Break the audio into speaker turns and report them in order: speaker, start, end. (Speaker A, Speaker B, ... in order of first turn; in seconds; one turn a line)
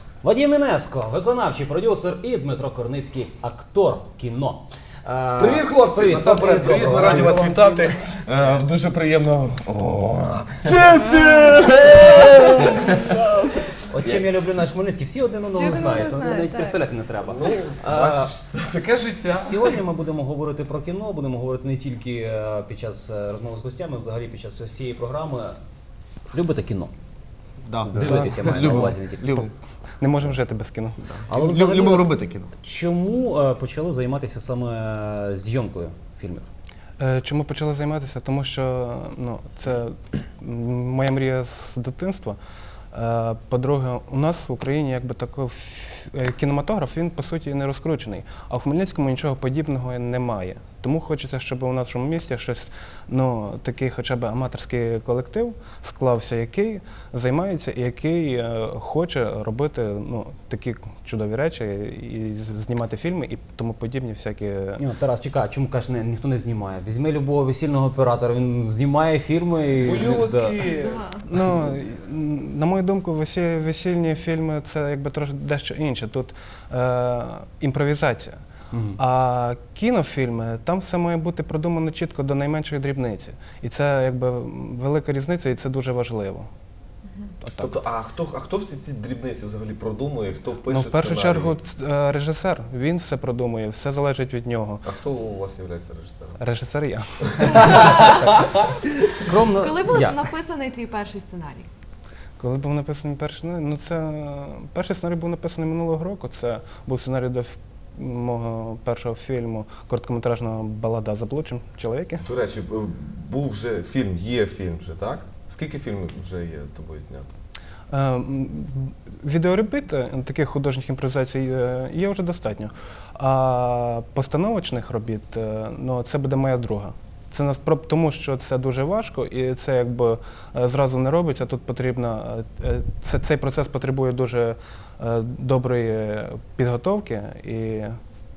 Speaker A: 0.2-7.9
Speaker B: 5.4-13.5
Speaker A: 13.8-18.3
Speaker C: 15.5-16.8
Speaker B: 17.2-19.8
Speaker A: 19.3-25.6
Speaker A: 26.3-26.9
Speaker D: 27.6-29.5
Speaker A: 27.9-29.3
Speaker E: 28.0-28.8
Speaker E: 30.0-31.0
Speaker A: 31.3-32.1
Speaker D: 31.3-32.5
Speaker A: 32.6-36.5
Speaker E: 37.0-42.4
Speaker E: 42.9-64.8
Speaker A: 64.8-70.5
Speaker B: 69.8-71.1
Speaker C: 70.6-71.2
Speaker E: 71.2-78.4
Speaker A: 78.7-79.0
Speaker E: 79.0-86.5
Speaker E: 87.4-87.8
Speaker B: 87.6-91.5
Speaker E: 90.7-94.9
Speaker B: 94.8-96.4
Speaker E: 96.4-97.6
Speaker B: 97.2-98.6
Speaker C: 97.6-98.2
Speaker A: 99.1-100.1
Speaker C: 99.5-101.7
Speaker E: 102.4-112.2
Speaker B: 112.2-117.3
Speaker E: 117.9-137.9